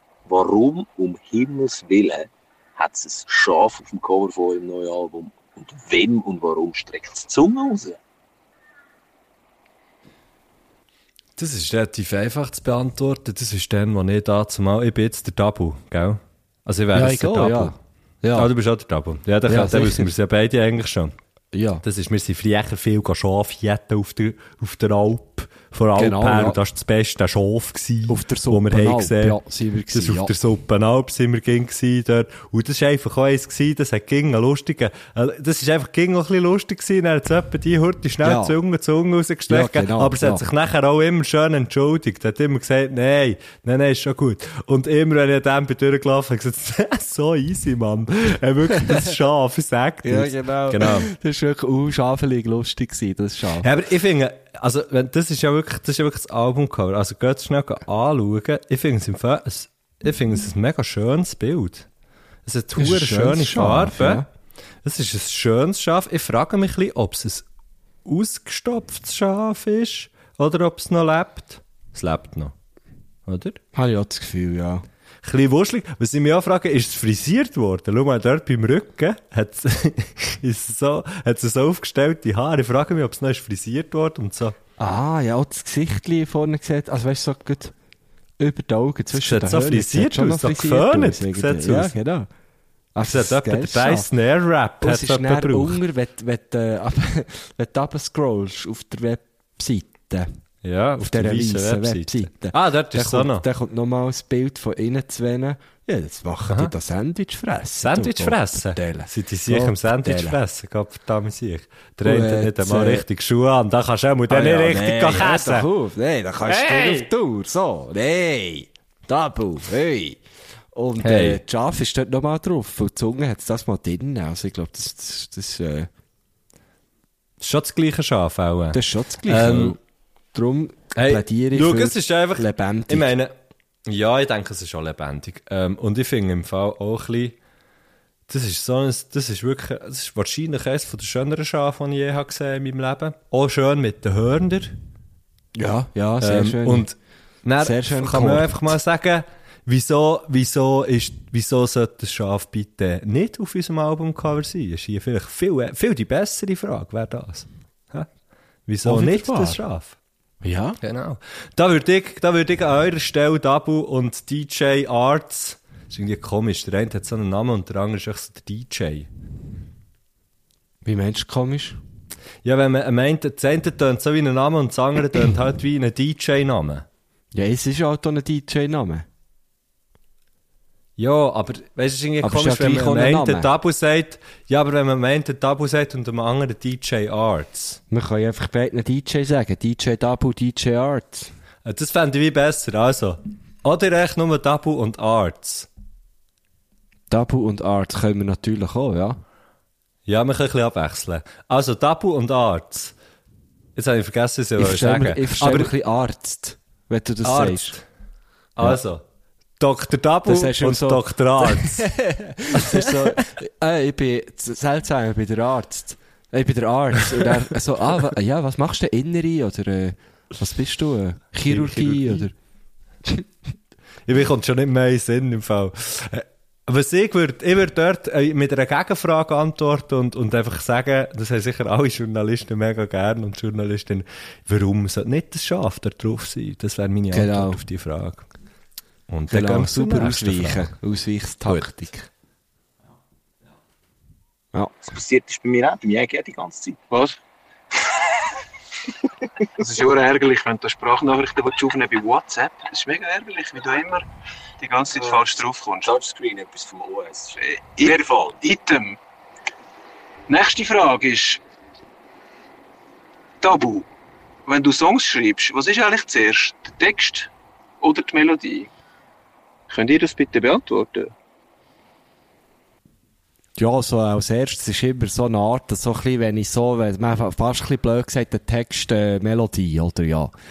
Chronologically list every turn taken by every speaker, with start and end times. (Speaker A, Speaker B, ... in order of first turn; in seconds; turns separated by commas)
Speaker A: 0.2-8.0, Speaker B: 11.4-17.7, Speaker C: 16.9-18.5, Speaker B: 18.3-21.1, Speaker C: 19.5-20.1, Speaker C: 21.5-21.8, Speaker B: 21.8-29.4, Speaker C: 25.9-26.6, Speaker C: 28.1-30.3, Speaker B: 29.9-51.1, Speaker C: 38.2-38.6, Speaker C: 39.5-40.4, Speaker C: 50.0-53.7, Speaker B: 53.6-61.9, Speaker B: 62.4-64.2, Speaker C: 62.7-64.2, Speaker B: 64.8-67.4, Speaker B: 68.0-72.5, Speaker B: 73.2-73.6, Speaker C: 73.7-74.8, Speaker B: 75.2-84.5, Speaker C: 84.8-87.7, Speaker C: 88.4-92.3, Speaker B: 89.1-91.9, Speaker C: 92.9-94.1, Speaker B: 93.0-95.8, Speaker C: 94.8-100.3, Speaker B: 100.6-103.5, Speaker C: 101.0-110.4, Speaker B: 107.8-115.7, Speaker C: 112.0-113.0, Speaker C: 114.3-120.2, Speaker B: 116.5-117.1, Speaker C: 120.7-125.9, Speaker B: 121.0-121.4, Speaker B: 127.4-129.8, Speaker C: 128.7-129.8, Speaker C: 130.3-133.1, Speaker B: 130.9-133.3, Speaker B: 133.9-137.3, Speaker B: 138.3-144.8, Speaker C: 145.6-146.9, Speaker B: 146.2-158.1, Speaker C: 147.6-148.7, Speaker B: 158.7-159.9, Speaker C: 158.8-159.6, Speaker C: 160.4-160.8, Speaker B: 160.8-169.1, Speaker C: 170.8-171.8, Speaker B: 172.4-176.8, Speaker C: 177.3-179.1, Speaker B: 181.0-187.8, Speaker C: 182.2-183.5, Speaker C: 187.9-191.3, Speaker B: 191.6-195.7, Speaker C: 197.1-199.2, Speaker B: 200.1-202.9, Speaker B: 203.7-205.7, Speaker C: 204.6-207.8, Speaker B: 207.2-207.8, Speaker B: 208.6-209.0, Speaker B: 209.6-211.9, Speaker C: 210.3-222.3, Speaker B: 212.5-213.2, Speaker B: 221.5-222.2, Speaker B: 224.1-238.3, Speaker C: 237.1-237.6, Speaker B: 239.1-240.7, Speaker C: 239.3-242.1, Speaker A: 244.8-246.8, Speaker D: 246.9-247.2, Speaker D: 249.6-254.1, Speaker D: 254.6-255.9, Speaker A: 255.8-258.4, Speaker D: 257.4-259.0, Speaker D: 260.3-261.4, Speaker D: 263.4-263.9, Speaker D: 264.4-267.3, Speaker D: 267.8-268.7, Speaker D: 269.7-271.1, Speaker C: 273.6-280.3